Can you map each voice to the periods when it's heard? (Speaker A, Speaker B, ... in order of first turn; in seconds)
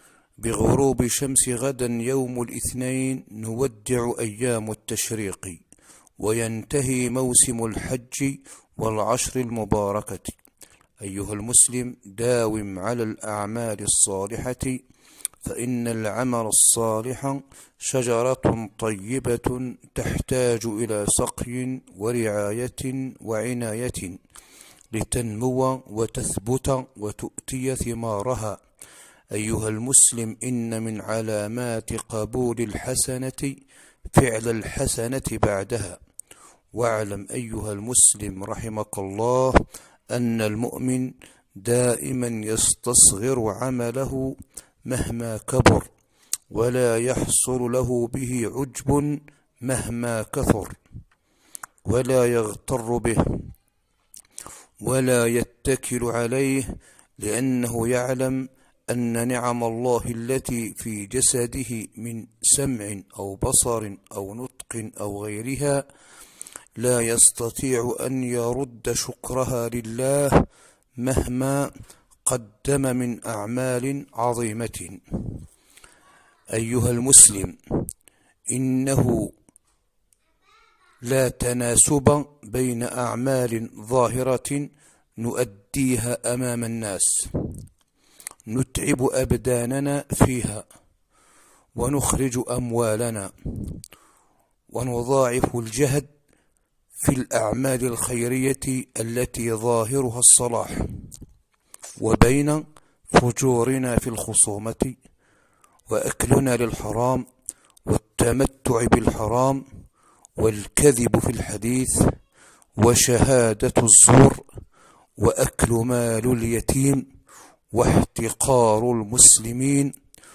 Speaker A: 0.4-5.6, 6.2-10.4, 11.0-14.8, 15.4-24.2, 24.9-28.6, 29.3-33.5, 34.1-36.0, 36.7-39.6, 40.1-44.3, 44.9-45.9, 46.5-50.8, 51.9-53.5, 54.8-65.8, 66.8-70.4, 71.0-71.7, 72.2-75.4, 76.5-77.6, 78.5-79.3, 81.0-87.5, 88.5-90.6, 91.8-93.8, 94.7-96.1, 97.0-100.9, 102.0-105.0, 105.9-107.2, 107.8-109.6, 110.4-112.1, 112.8-114.4, 115.2-117.0, 117.7-119.9